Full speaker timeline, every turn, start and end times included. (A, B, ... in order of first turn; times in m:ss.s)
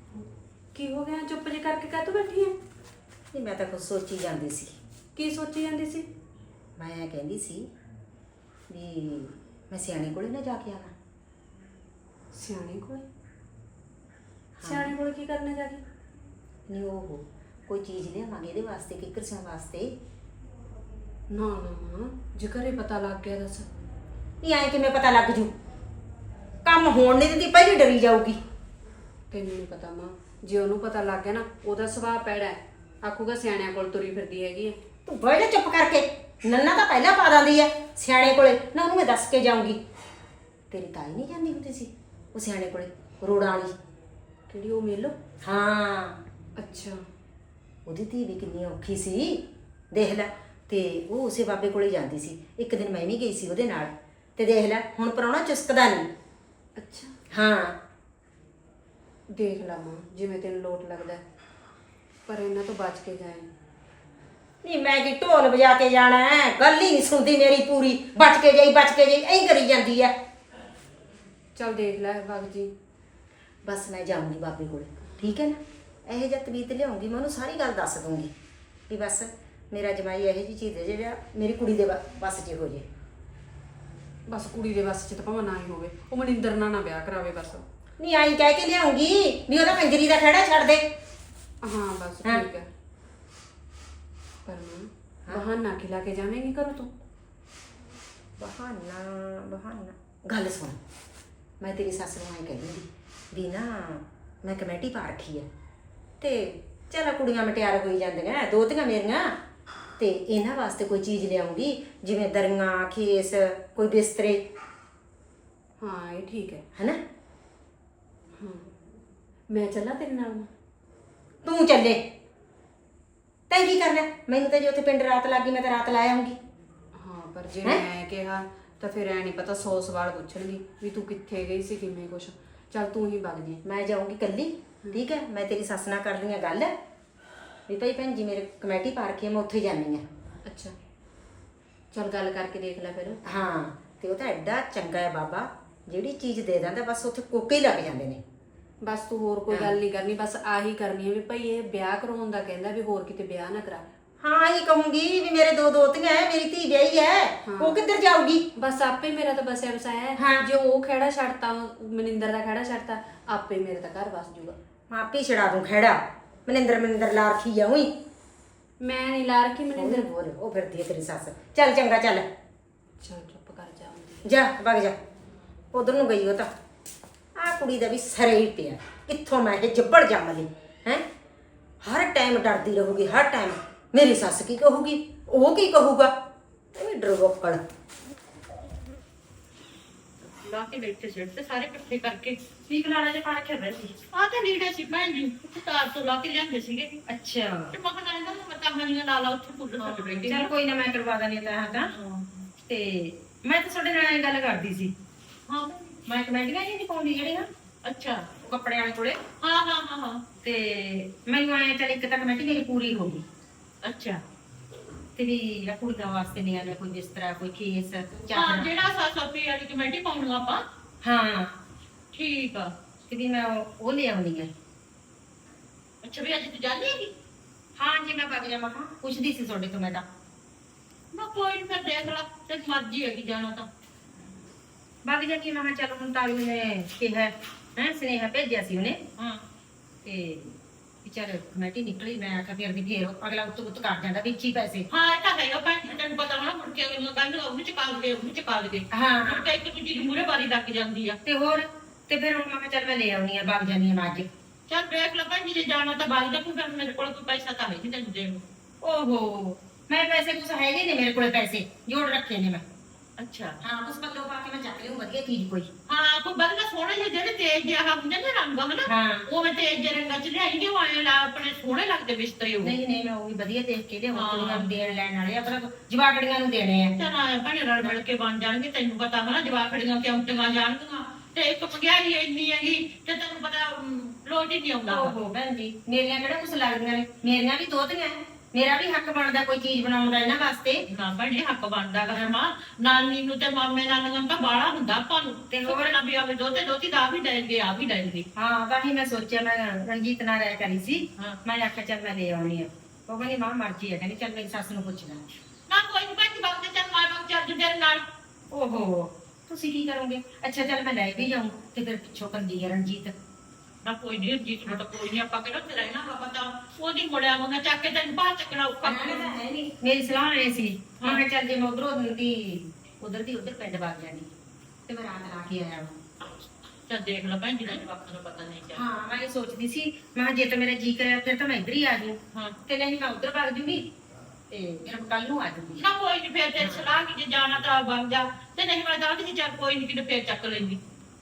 0:00.7-0:02.6 A
0:03.3-0:04.8 B
0:05.2-0:06.0 A
0:06.8-0:07.6 B
0:08.7-0:10.9 B
0:12.3-0:13.0 A
0:14.6-0:14.9 B
0:14.6-0:15.8 A
0:16.7-0:19.9 B
0:21.3-0:23.7 A
0:24.4-0:25.5 B
0:26.6-0:28.4 B
0:29.3-0:34.8 A
0:35.0-0:39.8 B
0:40.7-0:43.7 B
0:44.5-0:45.1 A
0:45.4-0:46.2 B
0:46.6-0:47.0 A
0:47.8-0:56.1 B
0:56.8-0:57.1 A
0:57.3-0:57.8 B
0:59.3-1:01.2 A
1:02.3-1:03.5 A
1:04.6-1:10.1 B
1:11.6-1:12.7 A
1:13.6-1:18.3 B
1:18.9-1:22.9 B
1:24.3-1:27.6 A
1:28.0-1:30.8 B
1:31.6-1:32.6 A
1:34.4-1:36.9 A
1:38.4-1:40.8 B
1:41.6-1:45.5 B
1:46.2-1:49.4 B
1:50.0-1:54.4 B
1:55.8-1:56.6 A
1:56.7-1:57.0 B
1:58.4-1:58.7 A
1:59.5-2:00.5 A
2:01.4-2:02.0 B
2:03.5-2:06.4 B
2:06.9-2:13.6 A
2:13.6-2:16.7 B
2:17.7-2:20.0 B
2:20.4-2:20.7 A
2:21.9-2:23.2 A
2:23.2-2:28.2 B
2:28.8-2:33.8 A
2:29.5-2:29.8 B
2:34.2-2:38.4 B
2:37.5-2:37.8 A
2:38.6-2:44.6 A
2:40.2-2:40.4 B
2:44.9-2:47.9 B
2:48.8-2:50.1 A
2:49.7-2:52.3 B
2:53.0-2:54.2 A
2:54.2-2:55.0 B
2:55.7-2:56.5 B
2:57.4-3:01.0 B
3:01.8-3:06.1 B
3:06.7-3:07.6 B
3:10.2-3:12.4 C
3:12.7-3:13.9 B
3:14.1-3:17.0 C
3:17.1-3:17.7 B
3:17.7-3:20.5 C
3:19.8-3:21.9 B
3:21.8-3:22.5 C
3:22.6-3:24.9 B
3:25.5-3:26.0 C
3:26.1-3:27.5 B
3:27.8-3:28.3 C
3:28.4-3:29.2 B
3:29.4-3:30.2 C
3:30.4-3:33.2 B
3:33.8-3:34.2 C
3:35.2-3:38.7 B
3:38.3-3:40.6 C
3:41.0-3:41.5 B
3:42.1-3:42.7 C
3:43.1-3:44.5 B
3:46.0-3:47.1 C
3:47.8-3:50.0 B
3:51.1-3:53.7 C
3:55.0-3:59.0 B
4:00.0-4:04.9 B
4:04.9-4:11.2 C
4:08.9-4:09.4 B
4:11.2-4:14.3 B
4:14.7-4:18.4 C
4:18.8-4:22.6 B
4:23.2-4:23.6 C
4:23.6-4:25.7 B
4:25.9-4:32.7 C
4:28.8-4:29.2 B
4:32.6-4:37.0 B
4:34.1-4:34.7 C
4:37.0-4:45.1 C
4:44.9-4:50.8 B
4:50.9-4:58.2 C
4:55.5-4:56.0 B
4:58.4-5:05.2 B
5:05.7-5:08.0 C
5:08.5-5:13.1 B
5:13.8-5:19.3 C
5:18.8-5:24.3 B
5:24.9-5:26.0 B
5:26.9-5:28.8 C
5:28.7-5:33.9 B
5:34.5-5:35.9 B
5:35.8-5:40.8 C
5:36.6-5:36.8 B